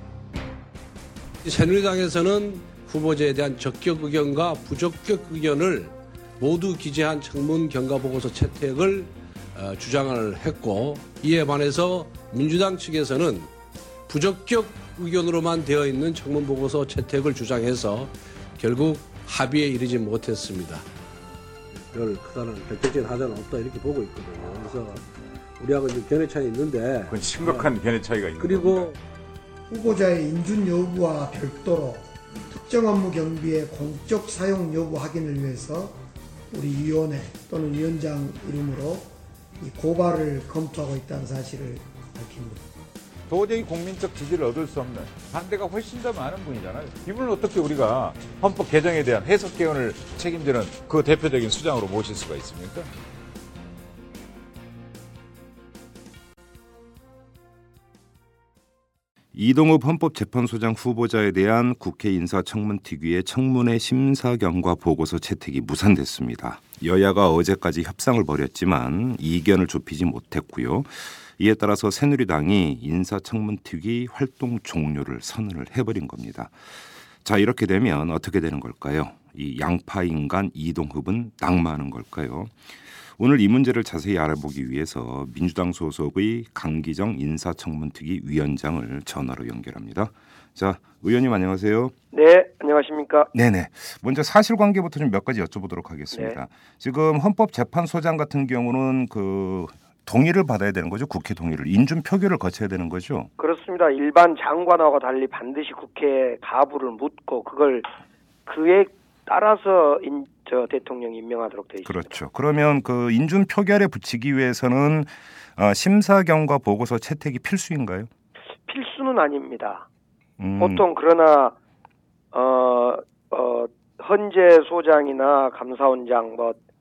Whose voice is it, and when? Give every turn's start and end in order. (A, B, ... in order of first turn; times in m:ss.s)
0:01.4-0:13.5 A
0:14.1-0:20.8 A
0:21.9-0:25.0 A
0:25.6-0:27.7 A
0:27.1-0:28.9 B
0:28.4-0:29.0 A
0:29.7-0:36.0 C
0:36.5-0:42.6 C
0:43.3-0:52.9 B
0:59.3-1:16.6 D
1:17.2-1:31.9 D
1:32.1-1:33.3 E
1:33.3-1:43.3 D
1:36.1-1:36.4 E
1:43.4-1:47.9 E
1:48.4-1:52.2 E
1:51.8-1:58.1 D
1:58.7-1:59.9 E
2:00.4-2:00.8 D
2:00.6-2:01.5 E
2:02.3-2:06.6 E